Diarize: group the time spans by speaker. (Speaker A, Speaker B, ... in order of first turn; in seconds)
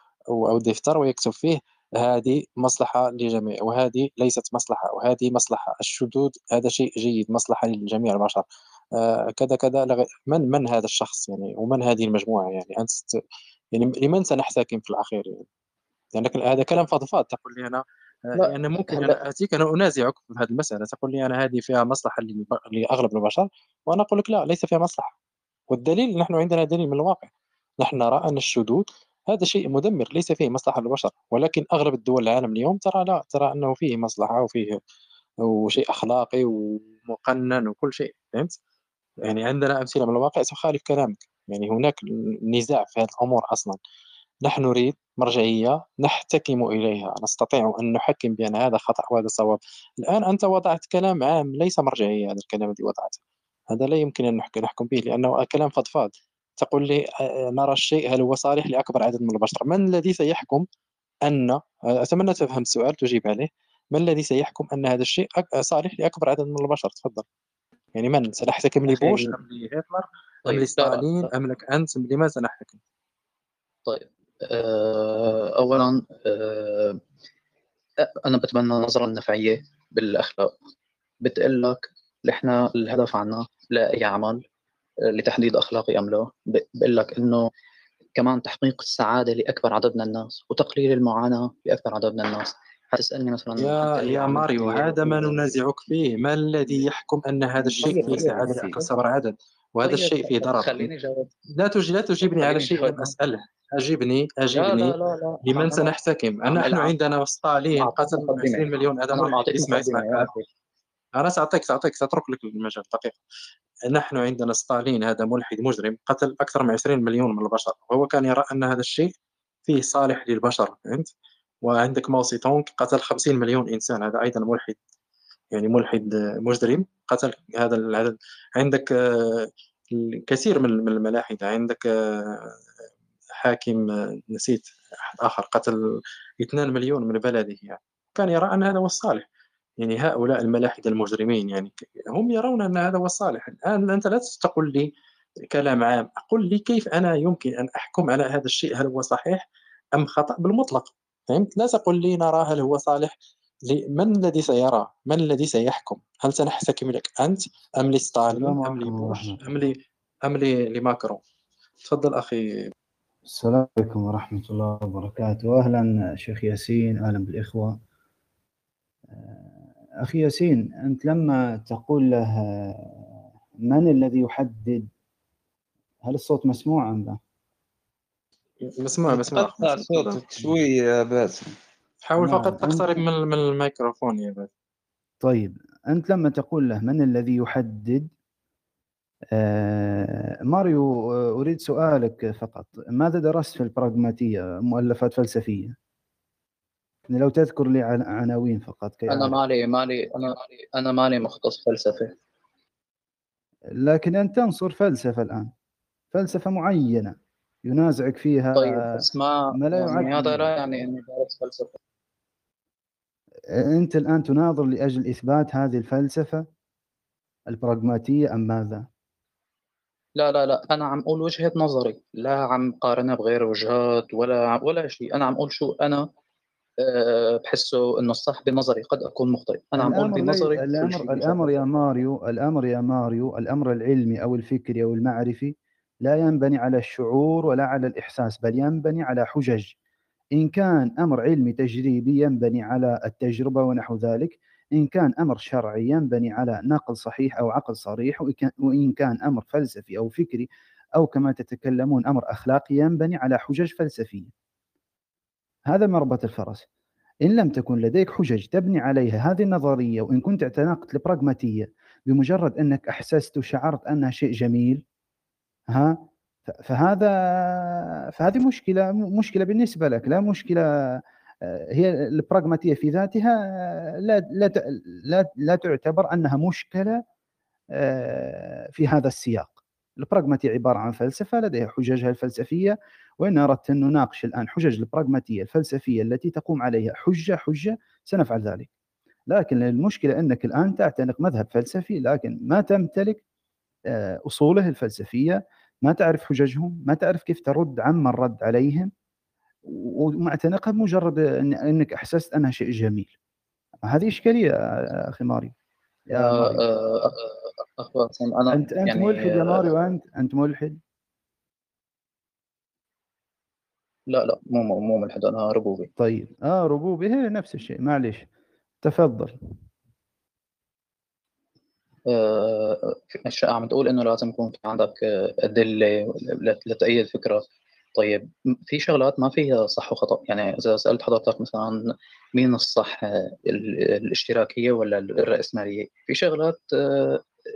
Speaker A: 0.3-8.4, 8.9-13.2, 13.7-15.4, 16.1-25.1, 25.7-27.3, 27.8-34.8, 35.4-38.5, 39.2-43.8, 44.4-53.2, 53.7-60.6, 61.2-67.2, 67.9-72.8, 93.6-100.9, 101.6-110.3, 111.2-113.2, 113.9-119.1, 119.7-121.1, 121.6-124.8, 125.5-132.6, 133.4-135.8, 136.4-139.2, 139.8-144.9, 145.5-149.4, 149.9-153.1, 153.7-161.2, 161.8-162.7, 178.8-180.5, 182.1-184.5
Speaker B: 18.4-19.2, 68.9-69.3, 70.5-71.2, 73.8-77.0, 78.0-80.5, 81.2-84.4, 85.1-87.4, 88.2-95.6, 97.6-98.9, 99.8-101.3, 102.2-103.1, 104.5-105.9, 106.5-106.9, 107.8-110.4, 199.1-202.1, 208.6-211.8, 220.2-226.1, 226.8-231.6, 306.1-307.2, 307.8-309.6, 314.1-315.9, 322.1-327.4, 327.9-331.8, 332.3-337.2
Speaker C: 158.3-159.4, 163.2-167.8, 169.1-173.0, 173.6-174.9, 176.0-177.2, 182.2-183.0, 185.2-188.1, 189.3-195.8, 197.1-199.4, 203.8-205.5, 206.1-210.6, 213.6-216.4, 217.5-218.9, 229.8-239.7, 240.3-254.3, 255.7-256.6, 257.2-264.8, 265.7-277.0, 277.7-288.7, 289.3-293.2, 293.9-298.9, 299.7-303.1, 303.9-304.5, 305.0-305.5, 306.1-306.7, 308.5-310.8, 316.0-318.2, 318.8-319.4
Speaker D: 179.1-181.5